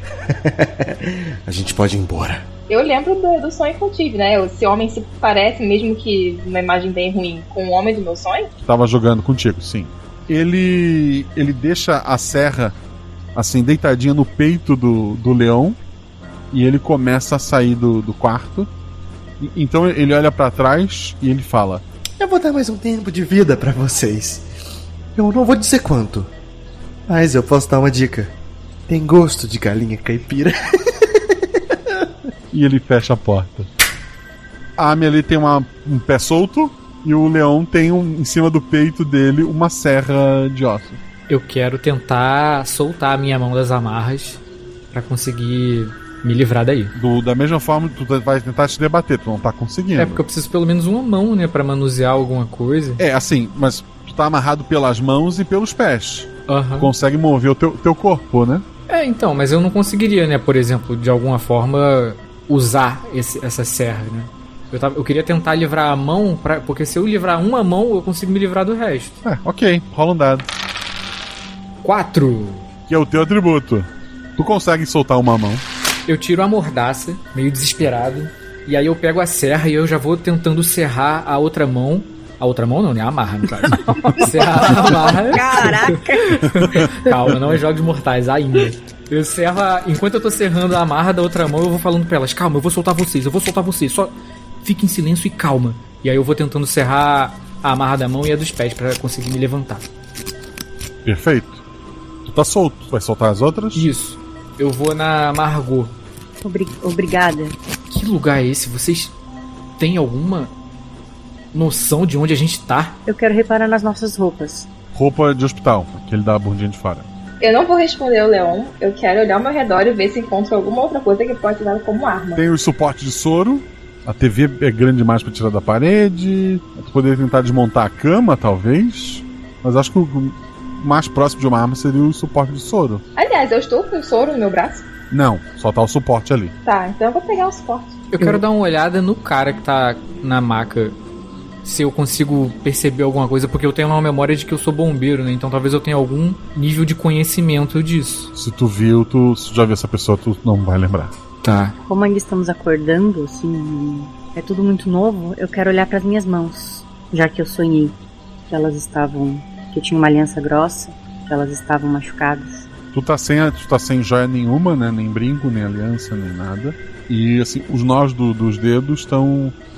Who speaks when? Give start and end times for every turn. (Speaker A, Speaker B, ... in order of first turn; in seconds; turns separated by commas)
Speaker A: 0.3-2.5, Speaker B: 2.7-8.5, Speaker C: 8.6-12.8, Speaker C: 13.3-15.8, Speaker C: 16.5-18.7, Speaker C: 19.4-21.8, Speaker A: 22.2-24.5, Speaker A: 25.1-26.3, Speaker A: 27.1-28.3, Speaker A: 28.9-31.4, Speaker C: 32.5-33.7, Speaker C: 34.8-41.0, Speaker D: 41.3-44.4, Speaker D: 44.9-46.9, Speaker C: 47.0-50.2, Speaker D: 50.0-53.0, Speaker C: 53.0-58.7, Speaker D: 56.5-56.9, Speaker D: 58.9-69.2, Speaker C: 69.2-70.5, Speaker D: 71.8-72.7, Speaker C: 72.9-75.6, Speaker D: 76.1-99.9, Speaker E: 83.7-86.4, Speaker C: 86.7-87.6, Speaker C: 101.0-101.6, Speaker C: 102.2-103.9, Speaker D: 103.7-106.0, Speaker E: 106.4-107.6, Speaker D: 107.9-109.1, Speaker D: 109.8-110.5, Speaker D: 111.5-113.0, Speaker E: 113.1-114.7, Speaker C: 114.9-117.1, Speaker B: 117.4-122.4, Speaker C: 122.4-133.0, Speaker B: 133.2-134.8, Speaker C: 135.1-136.6, Speaker B: 136.7-138.1, Speaker D: 138.1-141.0, Speaker D: 141.6-148.3, Speaker C: 148.3-151.1, Speaker D: 151.4-151.8, Speaker E: 151.8-158.0, Speaker E: 158.5-162.7, Speaker C: 162.9-169.6